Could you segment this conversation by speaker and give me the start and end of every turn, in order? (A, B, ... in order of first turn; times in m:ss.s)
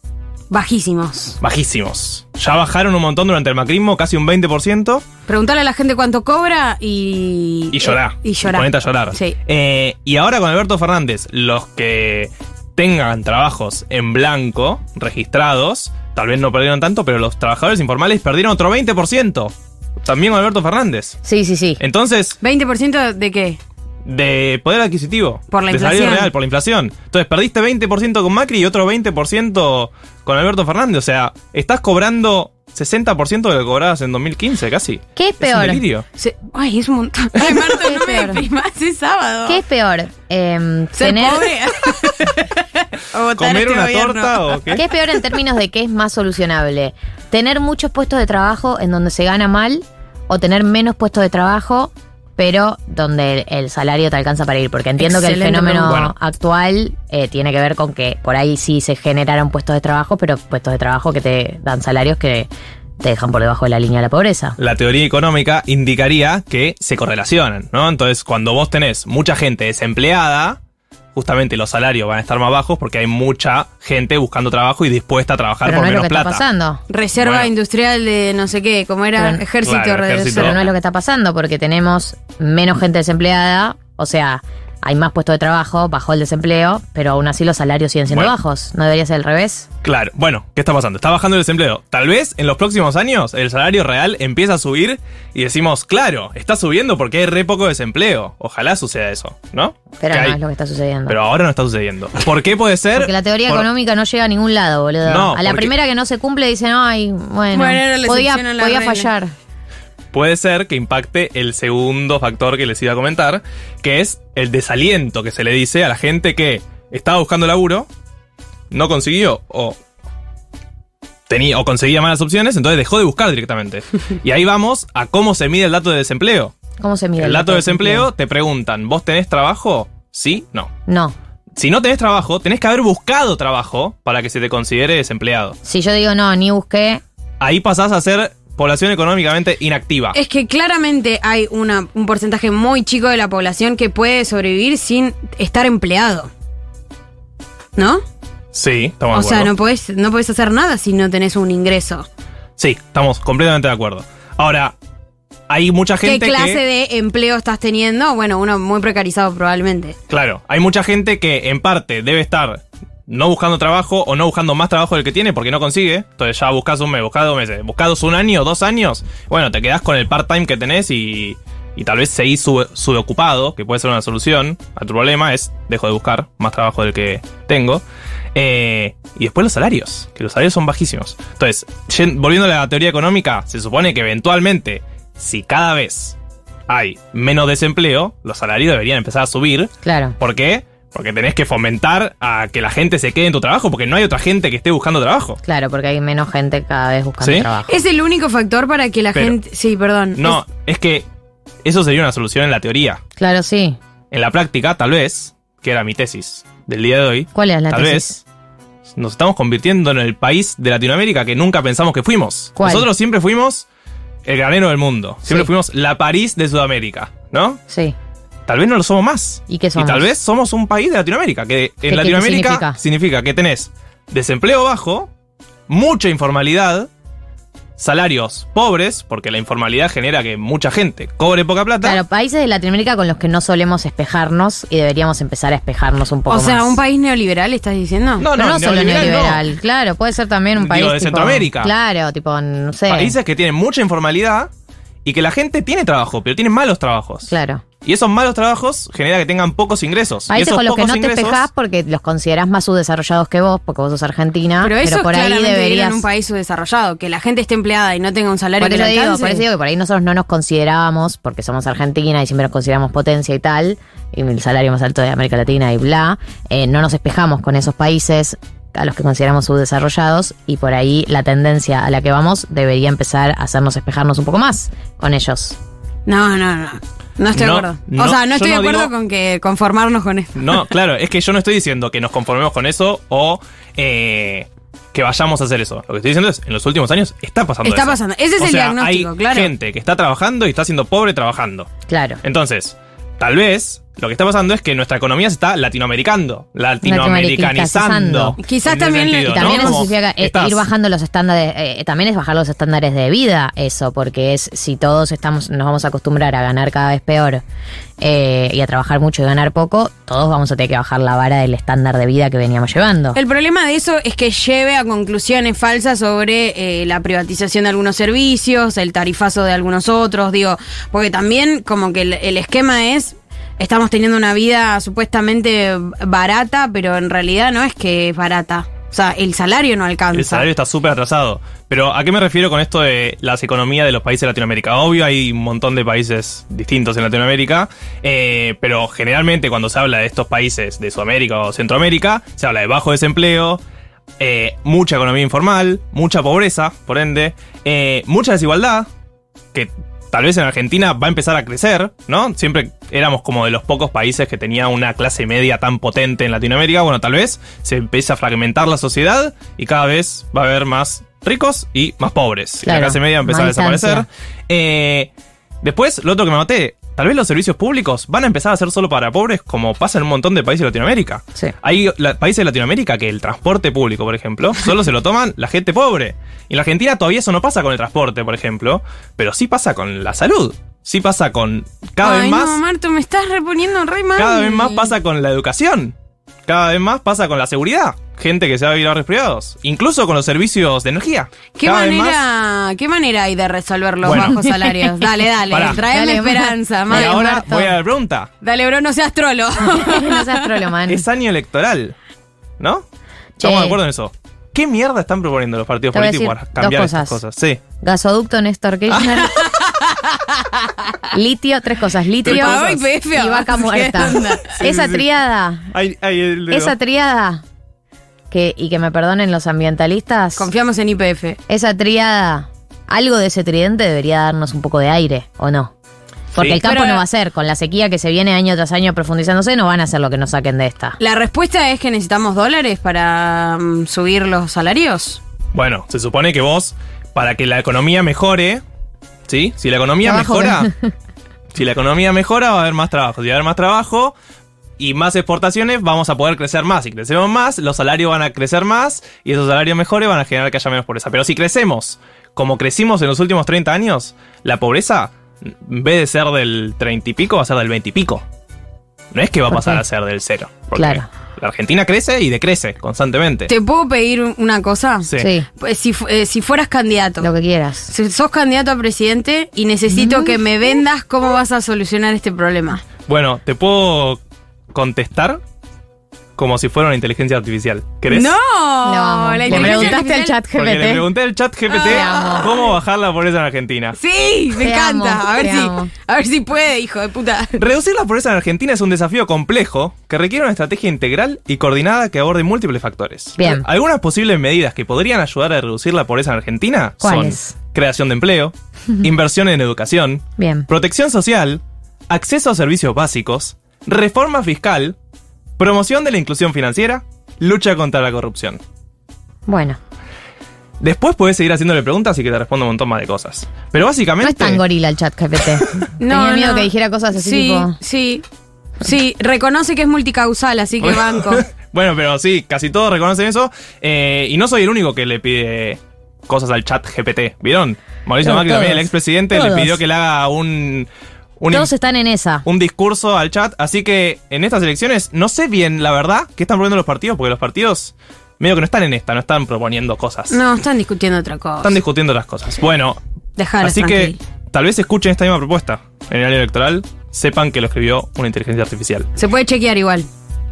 0:00.5-0:01.4 A
0:01.4-0:05.1 B
0:05.3-0:09.3 A
0:07.7-0:21.2 B
0:21.2-0:21.8 C
0:21.8-0:22.4 B
0:22.4-0:23.6 A
0:24.0-0:36.1 B
0:25.5-0:26.3 A
0:35.2-0:35.8 C
0:36.2-0:39.6 A
0:37.7-0:38.4 C
0:39.5-0:41.5 C
0:41.0-0:44.6 A
0:43.4-0:44.8 B
0:44.8-1:04.6 C
0:55.0-0:55.9 A
0:55.8-0:56.1 B
1:04.6-1:10.6 B
1:11.2-1:16.4 B
1:15.6-1:16.8 C
1:16.9-1:20.6 A
1:17.2-1:17.5 B
1:19.2-1:19.4 C
1:19.6-1:20.6 B
1:20.3-1:29.7 C
1:29.8-1:40.4 B
1:40.0-1:41.2 C
1:41.1-1:43.7 B
1:43.0-1:49.3 C
1:45.0-1:45.7 B
1:47.5-1:49.1 A
1:50.1-1:57.9 B
1:58.7-1:59.8 B
2:01.3-2:06.5 B
2:06.8-2:08.1 C
2:07.2-2:10.7 B
2:10.9-2:11.2 C
2:11.6-2:15.6 B
2:15.6-2:17.0 C
2:17.4-2:20.2 B
2:20.1-2:26.3 A
2:27.8-2:28.0 A
2:28.5-2:29.5 B
2:29.1-2:32.1 A
2:32.6-2:34.8 B
2:35.5-2:36.6 B
2:36.0-2:40.0 A
2:40.1-2:57.8 B
2:58.3-3:06.2 B
3:06.7-3:15.4 B
3:09.8-3:10.2 C
3:15.4-3:17.8 C
3:17.2-3:17.5 B
3:17.7-3:20.4 A
3:20.2-3:21.1 B
3:21.6-3:23.0 B
3:23.2-3:23.8 C
3:24.1-3:28.2 B
3:27.3-3:28.2 C
3:28.9-3:33.7 B
3:32.6-3:32.9 C
3:34.2-3:37.6 B
3:37.7-3:38.0 C
3:38.5-3:45.1 B
3:39.5-3:40.1 C
3:41.9-3:42.8 C
3:45.7-3:46.9 B
3:47.8-3:52.0 B
3:51.8-3:56.8 C
3:56.3-3:58.3 A
3:58.2-3:59.4 B
3:58.3-4:03.2 C
4:00.6-4:01.7 B
4:02.9-4:04.5 B
4:05.0-4:07.3 B
4:07.3-4:07.6 C
4:07.8-4:11.5 B
4:10.3-4:16.0 C
4:14.6-4:19.4 A
4:18.6-4:35.6 C
4:36.1-4:40.7 A
4:37.4-4:38.9 B
4:40.4-4:51.7 B
4:47.6-4:49.5 A
4:51.9-4:52.2 C
4:52.2-5:00.6 B
4:56.8-4:58.4 C
4:58.4-4:59.9 A
4:59.2-5:07.4 C
5:08.0-5:13.2 C
5:13.1-5:30.5 A
5:30.1-5:43.6 B
5:44.2-5:48.9 B
5:49.5-6:05.1 B
6:02.6-6:04.1 C
6:05.6-6:22.6 B
6:22.0-6:24.9 A
6:24.2-6:26.0 B
6:26.5-6:32.2 B
6:31.6-6:37.4 A
6:34.0-6:34.4 B
6:34.0-6:34.8 C
6:35.5-6:35.8 B
6:35.7-6:37.8 C
6:36.9-6:38.3 B
6:38.4-6:40.5 A
6:39.8-6:41.1 C
6:40.9-6:42.0 B
6:42.6-6:42.8 B
6:43.4-6:43.8 C
6:43.4-6:47.6 B
6:45.9-6:47.2 C
6:47.8-6:49.4 C
6:49.2-6:50.7 A
6:51.1-6:55.7 C
6:52.2-6:52.6 B
6:52.2-6:54.6 A
6:54.6-6:55.1 B
6:55.7-6:56.8 B
6:56.5-6:57.4 C
6:58.3-7:00.5 C
7:00.4-7:01.4 A
7:01.5-7:05.7 C
7:06.3-7:11.0 C
7:06.6-7:07.0 A
7:11.0-7:15.2 A
7:15.5-7:18.6 B
7:19.3-7:20.7 B
7:20.0-7:20.9 C
7:21.5-7:24.2 B
7:24.8-7:38.2 B
7:39.1-7:43.5 B
7:39.5-7:39.8 C
7:40.8-7:41.1 C
7:43.5-7:47.3 A
7:45.2-7:45.5 C
7:47.2-7:47.9 C
7:47.9-7:52.8 A
7:49.9-7:50.4 C
7:53.1-7:54.2 B
7:54.7-7:55.4 B
7:56.4-7:58.3 B
7:58.1-8:00.4 A
7:58.8-8:01.1 C
7:59.5-8:00.0 B
8:00.6-8:04.0 B
8:01.7-8:02.7 A
8:01.9-8:02.5 C
8:04.0-8:07.6 A
8:04.6-8:05.9 C
8:07.6-8:25.0 B
8:13.4-8:13.6 C
8:17.0-8:17.5 C
8:20.4-8:20.7 C
8:25.6-8:28.6 B
8:29.5-8:29.8 C
8:30.8-8:34.6 B
8:34.2-8:37.8 C
8:36.0-8:38.2 A
8:38.8-8:41.4 A
8:40.8-8:51.7 B
8:48.2-8:49.8 C
8:51.5-8:52.5 C
8:52.4-9:00.4 B
9:00.3-9:01.8 A
9:01.6-9:03.0 B
9:03.4-9:04.2 A
9:03.6-9:09.1 B
9:09.2-9:10.1 A